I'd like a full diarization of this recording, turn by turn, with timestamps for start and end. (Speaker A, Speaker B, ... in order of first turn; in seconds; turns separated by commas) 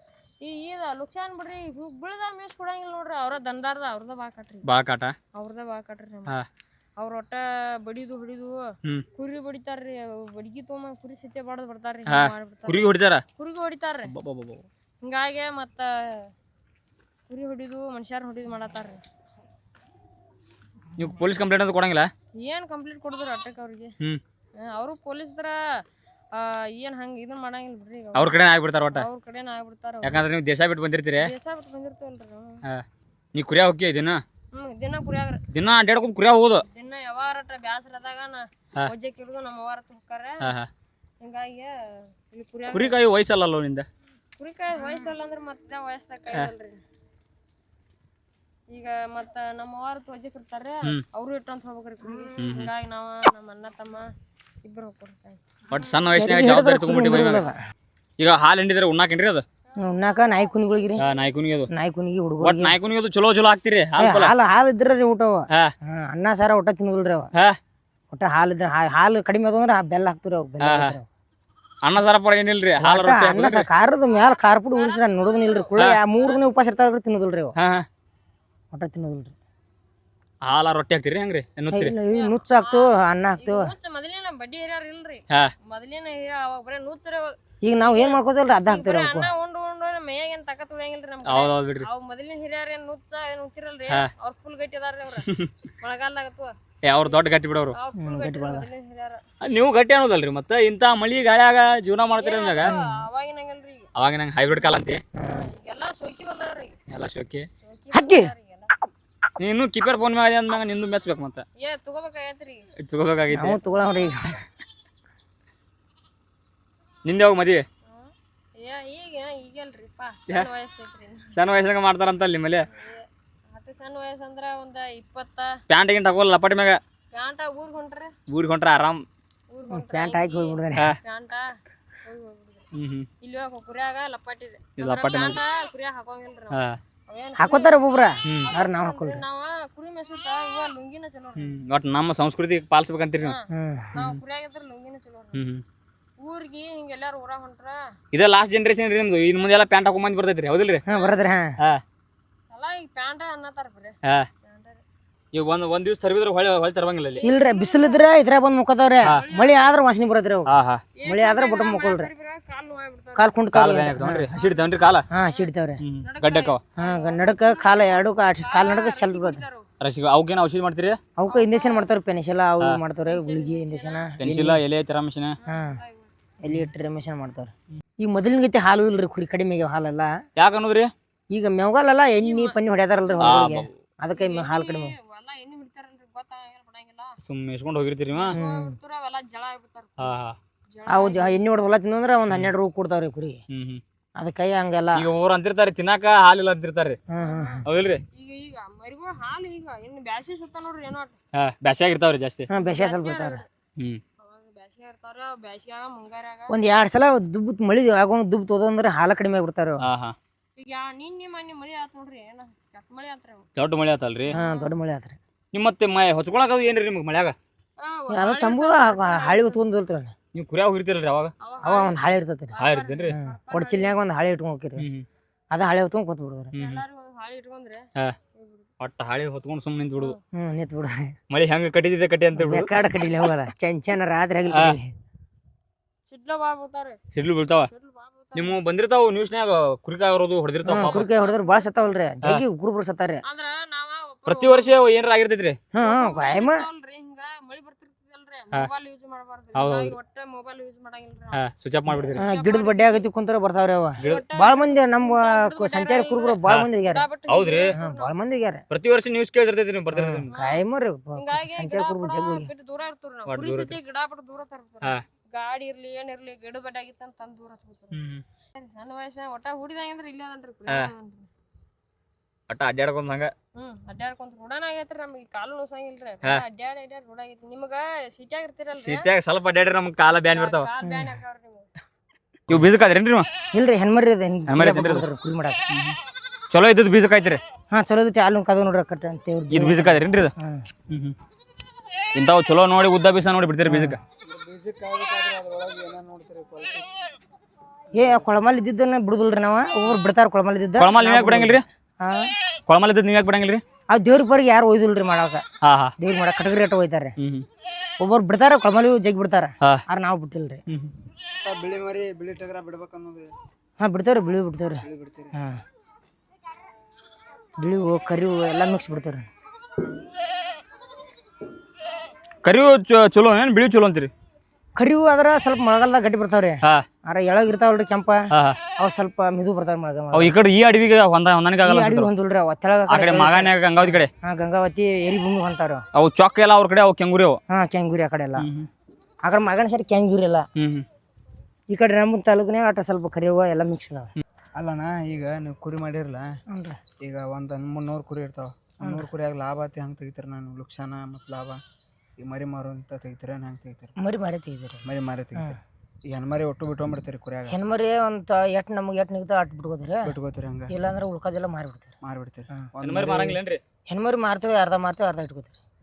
Speaker A: 0.4-4.7, Speaker B: 4.6-5.1, Speaker A: 5.3-6.4, Speaker A: 7.0-14.1, Speaker B: 12.1-13.2, Speaker B: 14.1-14.7, Speaker A: 15.0-16.3, Speaker A: 17.3-19.0, Speaker B: 21.0-22.1, Speaker A: 22.4-23.9, Speaker A: 24.6-25.6, Speaker A: 26.3-30.2, Speaker B: 28.1-29.1, Speaker B: 30.0-31.3, Speaker A: 31.2-32.6, Speaker B: 32.6-34.2, Speaker A: 34.5-35.4, Speaker B: 35.5-36.6, Speaker A: 36.7-40.5, Speaker B: 40.4-40.7, Speaker A: 41.2-43.0, Speaker B: 42.7-43.9, Speaker A: 44.4-46.8, Speaker A: 48.7-54.0, Speaker B: 52.4-52.7, Speaker A: 54.6-55.4, Speaker B: 55.7-57.5, Speaker C: 56.1-57.5, Speaker B: 58.2-59.4, Speaker C: 59.8-61.0, Speaker B: 61.0-61.7, Speaker C: 61.7-62.8, Speaker B: 62.4-64.3, Speaker C: 64.0-67.3, Speaker C: 68.1-71.1, Speaker B: 70.6-71.0, Speaker B: 71.8-73.7, Speaker C: 72.8-77.5, Speaker A: 74.1-76.8, Speaker B: 77.5-77.8, Speaker C: 78.7-79.3, Speaker B: 80.4-81.9, Speaker C: 81.7-83.7, Speaker A: 82.1-87.3, Speaker C: 87.6-89.3, Speaker A: 87.9-95.3, Speaker B: 91.2-91.9, Speaker B: 95.2-95.5, Speaker A: 95.8-96.5, Speaker B: 96.8-97.8, Speaker A: 97.7-99.2, Speaker C: 98.0-98.7, Speaker B: 99.4-102.7, Speaker A: 102.2-103.9, Speaker C: 102.6-103.0, Speaker B: 103.9-105.0, Speaker C: 105.2-105.5, Speaker A: 105.3-106.8, Speaker B: 106.9-107.5, Speaker A: 107.6-108.7, Speaker C: 107.9-108.3, Speaker B: 109.4-111.4, Speaker A: 111.6-112.7, Speaker B: 112.8-113.6, Speaker C: 113.3-114.4, Speaker B: 117.0-117.6, Speaker A: 117.8-121.3, Speaker B: 121.3-122.7, Speaker A: 122.7-125.5, Speaker B: 125.7-126.8, Speaker A: 127.1-128.1, Speaker B: 128.3-129.0, Speaker A: 129.5-131.5, Speaker C: 129.7-130.9, Speaker A: 132.0-132.6, Speaker B: 132.7-133.1, Speaker A: 133.2-137.8, Speaker B: 134.8-135.4, Speaker B: 136.5-136.8, Speaker C: 137.3-139.2, Speaker B: 138.2-138.5, Speaker A: 138.4-141.6, Speaker B: 141.4-143.3, Speaker A: 143.2-145.3, Speaker C: 143.5-144.2, Speaker B: 145.3-145.6, Speaker A: 146.2-147.8, Speaker B: 148.1-150.8, Speaker A: 150.8-151.2, Speaker C: 150.9-151.5, Speaker A: 152.5-154.8, Speaker B: 155.3-157.2, Speaker A: 157.1-158.1, Speaker C: 157.2-160.5, Speaker A: 159.1-159.8, Speaker B: 160.5-160.8, Speaker A: 161.0-163.3, Speaker C: 161.0-162.1, Speaker C: 163.1-164.3, Speaker B: 163.5-165.0, Speaker A: 164.3-165.4, Speaker C: 165.1-165.8, Speaker B: 165.8-166.6, Speaker A: 166.0-169.7, Speaker C: 166.8-169.4, Speaker B: 169.8-171.0, Speaker C: 171.2-174.6, Speaker A: 171.3-171.9, Speaker A: 173.1-174.1, Speaker B: 174.2-175.4, Speaker A: 175.4-176.1, Speaker C: 175.4-175.8, Speaker C: 176.4-180.1, Speaker B: 180.3-180.9, Speaker C: 181.3-184.9, Speaker A: 182.2-183.5, Speaker B: 183.2-183.7, Speaker A: 184.1-187.2, Speaker B: 187.2-188.4, Speaker A: 188.1-190.1, Speaker C: 188.3-188.8, Speaker B: 190.0-190.3, Speaker A: 190.7-191.4, Speaker C: 190.9-193.4, Speaker B: 193.5-193.8, Speaker C: 194.2-195.1, Speaker B: 194.9-197.0, Speaker C: 197.1-197.7, Speaker A: 197.2-201.1, Speaker B: 197.6-198.0, Speaker B: 201.3-202.5, Speaker C: 202.5-203.4, Speaker A: 202.5-203.5, Speaker A: 204.2-206.5, Speaker C: 206.5-209.8, Speaker B: 209.8-210.2, Speaker A: 210.6-213.4, Speaker B: 213.6-214.3, Speaker A: 214.3-214.8, Speaker C: 214.3-215.2, Speaker B: 215.5-217.3, Speaker A: 217.8-219.6, Speaker C: 218.1-220.1, Speaker B: 220.3-221.3, Speaker A: 221.4-224.0, Speaker C: 221.6-222.6, Speaker B: 222.6-223.1, Speaker C: 223.1-224.9, Speaker B: 224.8-225.1, Speaker C: 225.5-226.5, Speaker A: 226.5-228.7, Speaker B: 226.5-226.8, Speaker B: 228.8-230.1, Speaker C: 230.3-231.1, Speaker B: 231.3-232.7, Speaker C: 232.3-234.9, Speaker B: 234.5-234.8, Speaker A: 236.1-237.0, Speaker B: 237.1-237.7, Speaker A: 237.7-238.6, Speaker B: 238.3-241.1, Speaker C: 240.6-243.2, Speaker A: 240.7-242.0, Speaker A: 243.2-244.8, Speaker B: 244.3-245.6, Speaker C: 245.7-246.7, Speaker A: 245.8-251.4, Speaker B: 249.6-249.9, Speaker B: 251.3-252.2, Speaker C: 251.9-257.0, Speaker A: 252.1-253.1, Speaker A: 254.0-258.1, Speaker B: 257.3-257.7, Speaker C: 257.7-258.6, Speaker B: 258.7-260.3, Speaker C: 259.9-262.5, Speaker A: 260.3-260.6, Speaker A: 261.1-271.3, Speaker B: 263.3-263.8, Speaker B: 267.9-268.2, Speaker B: 272.5-273.3, Speaker A: 273.6-279.1, Speaker B: 278.8-280.7, Speaker A: 280.1-281.7, Speaker C: 280.8-281.2, Speaker B: 282.5-283.3, Speaker C: 283.5-285.6, Speaker B: 284.5-285.0, Speaker B: 285.7-285.9, Speaker B: 286.5-287.4, Speaker C: 287.7-290.7, Speaker B: 289.5-290.3, Speaker B: 290.9-291.1, Speaker B: 292.1-294.0, Speaker C: 293.6-294.0, Speaker D: 294.2-297.1, Speaker C: 297.9-302.3, Speaker B: 300.8-301.6, Speaker B: 302.7-303.6, Speaker C: 303.9-305.4, Speaker B: 305.6-305.9, Speaker C: 306.0-307.1, Speaker B: 307.2-307.4, Speaker C: 308.0-310.6, Speaker B: 310.7-310.9, Speaker D: 311.4-313.3, Speaker C: 313.8-315.6, Speaker D: 314.8-315.4, Speaker C: 317.6-319.3, Speaker B: 322.4-324.1, Speaker C: 324.8-328.3, Speaker B: 328.3-328.6, Speaker C: 328.8-330.4, Speaker B: 330.1-332.1, Speaker C: 331.6-335.8, Speaker B: 332.9-334.1, Speaker B: 335.9-337.4, Speaker C: 337.5-338.5, Speaker B: 338.4-338.7, Speaker C: 339.2-340.5, Speaker B: 340.6-340.9, Speaker C: 341.7-344.1, Speaker D: 344.6-346.4, Speaker C: 346.5-346.8, Speaker D: 347.0-351.6, Speaker C: 348.8-349.1, Speaker D: 352.2-353.9, Speaker C: 354.0-354.8, Speaker D: 354.8-357.6, Speaker C: 357.5-360.1, Speaker D: 360.0-360.7, Speaker C: 360.7-361.9, Speaker D: 362.0-363.4, Speaker B: 362.8-363.6, Speaker C: 363.9-365.6